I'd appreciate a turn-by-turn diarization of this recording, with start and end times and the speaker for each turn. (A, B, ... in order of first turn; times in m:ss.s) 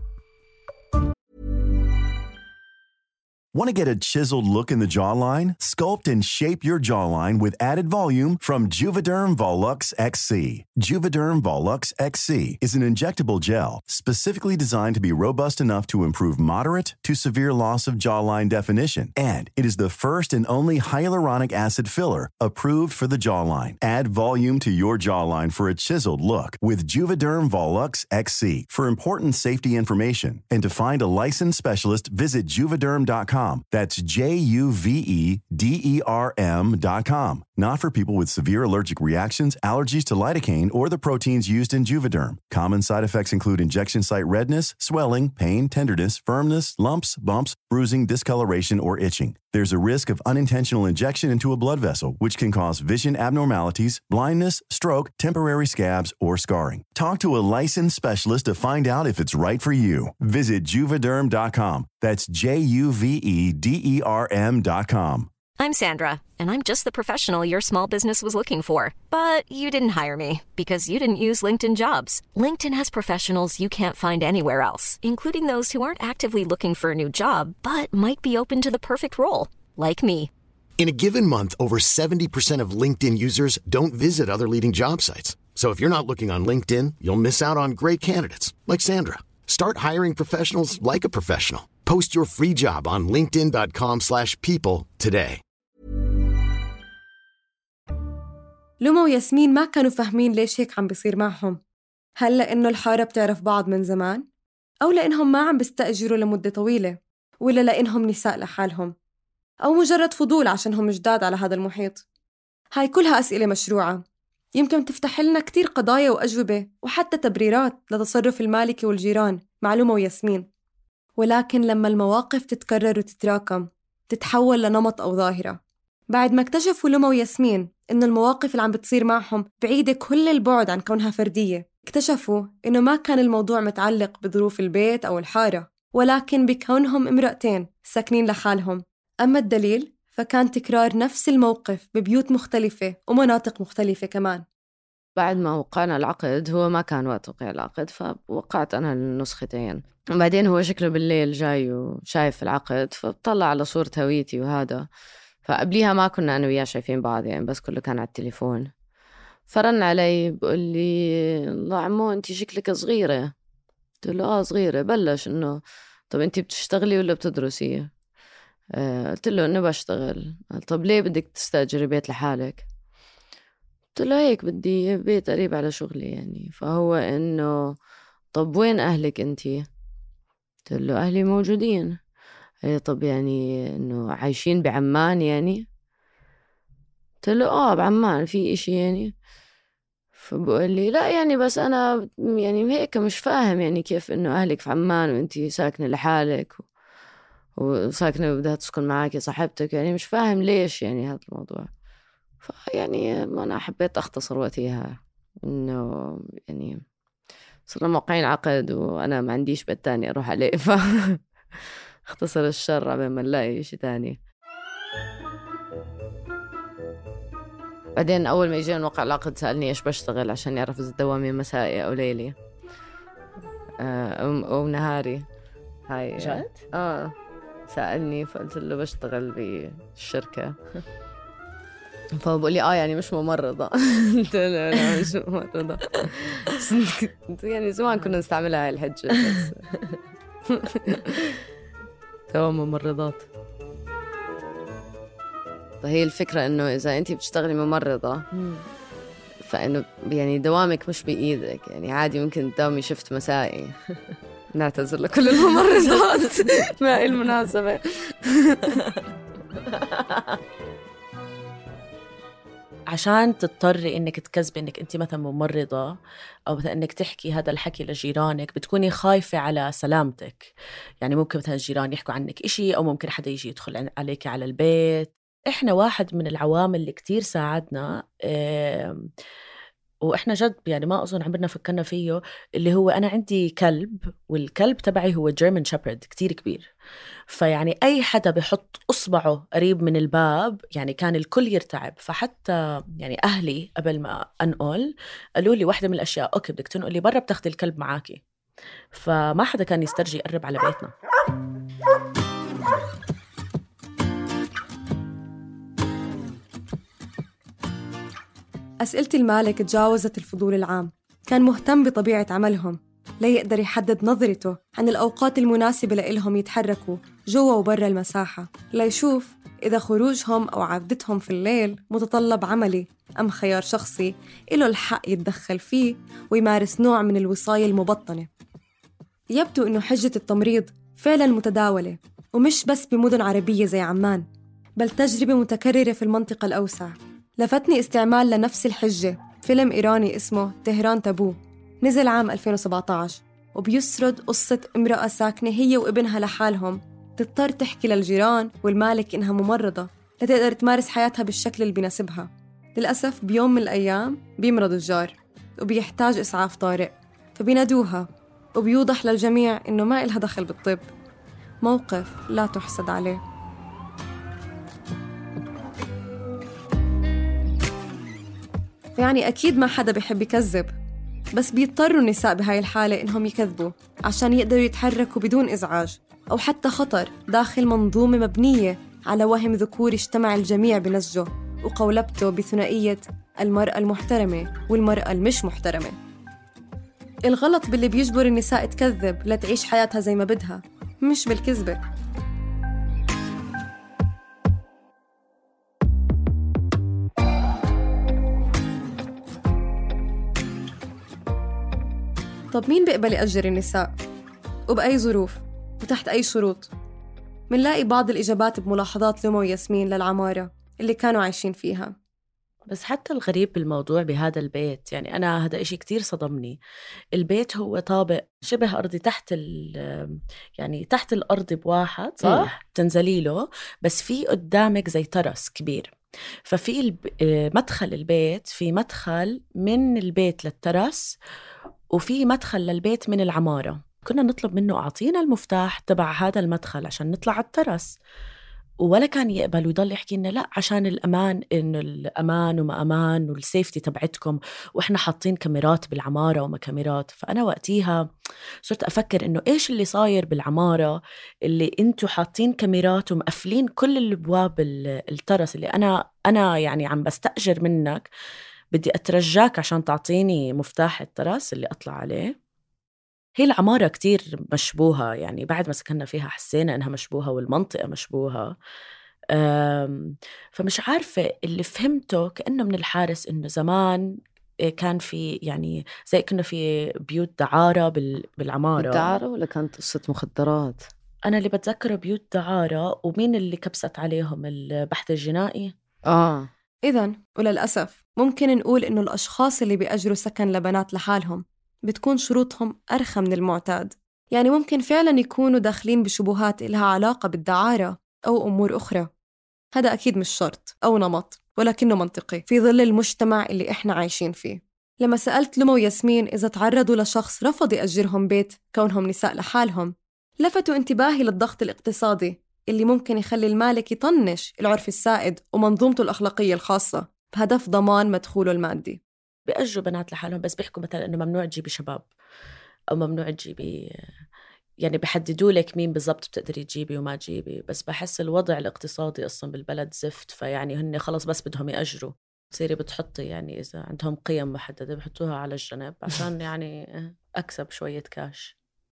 0:03.5-1:05.3 A
1:05.6-1:20.3 B
1:20.8-1:35.4 C
1:38.8-1:41.6 D
1:42.2-1:44.2 D
1:44.8-1:48.9 D
1:49.6-1:52.0 D
1:52.8-1:54.0 D
1:54.6-2:00.5 D
2:01.2-2:05.6 D
2:06.1-2:24.4 D
2:25.2-2:34.9 E
2:35.4-2:38.7 E
2:39.5-2:43.3 E
2:44.0-2:47.9 E
2:48.8-2:52.6 E
2:54.0-2:57.8 E
2:58.3-2:59.7 E
3:00.7-3:02.0 E
3:02.6-3:05.6 E
3:07.2-3:09.1 E
3:10.2-3:16.7 E
3:17.6-3:21.7 E
3:22.4-3:26.8 E
3:27.7-3:31.2 E
3:32.1-3:34.2 E
3:38.0-3:42.3 E
3:43.8-3:45.2 E
3:45.9-3:47.1 E
3:46.2-3:46.6 F
3:47.7-3:50.6 E
3:52.2-3:59.6 E
4:00.5-4:01.3 E
4:02.3-4:03.3 E
4:05.8-4:08.3 E
4:08.3-4:08.7 F
4:09.4-4:13.8 E
4:14.5-4:18.8 E
4:18.7-4:19.0 F
4:19.6-4:20.4 F
4:22.9-4:26.0 F
4:26.5-4:39.1 F
4:40.1-4:46.7 F
4:47.3-4:58.2 F
4:58.9-5:00.9 F
5:08.8-5:28.3 D
5:29.3-5:34.3 D
5:34.8-6:00.9 D
6:01.6-6:03.2 D
6:09.0-6:10.7 D
6:11.3-6:26.0 D
6:27.3-6:31.8 D
6:42.5-6:43.9 D
6:44.7-6:46.7 D
6:47.5-6:51.9 D
6:52.7-6:56.6 F
6:57.2-7:05.9 F
7:02.2-7:02.5 E
7:06.5-7:11.2 F
7:11.9-7:18.0 F
7:18.8-7:28.0 F
7:28.6-7:38.1 F
7:38.7-7:42.3 F
7:43.4-7:48.6 F
7:49.3-7:54.1 F
7:54.7-7:59.1 F
7:58.8-8:00.8 E
8:01.3-8:05.7 F
8:06.1-8:06.5 E
8:06.8-8:19.1 D
8:19.7-8:39.0 D
8:39.5-8:42.1 F
8:42.9-8:43.8 F
8:44.8-8:58.5 F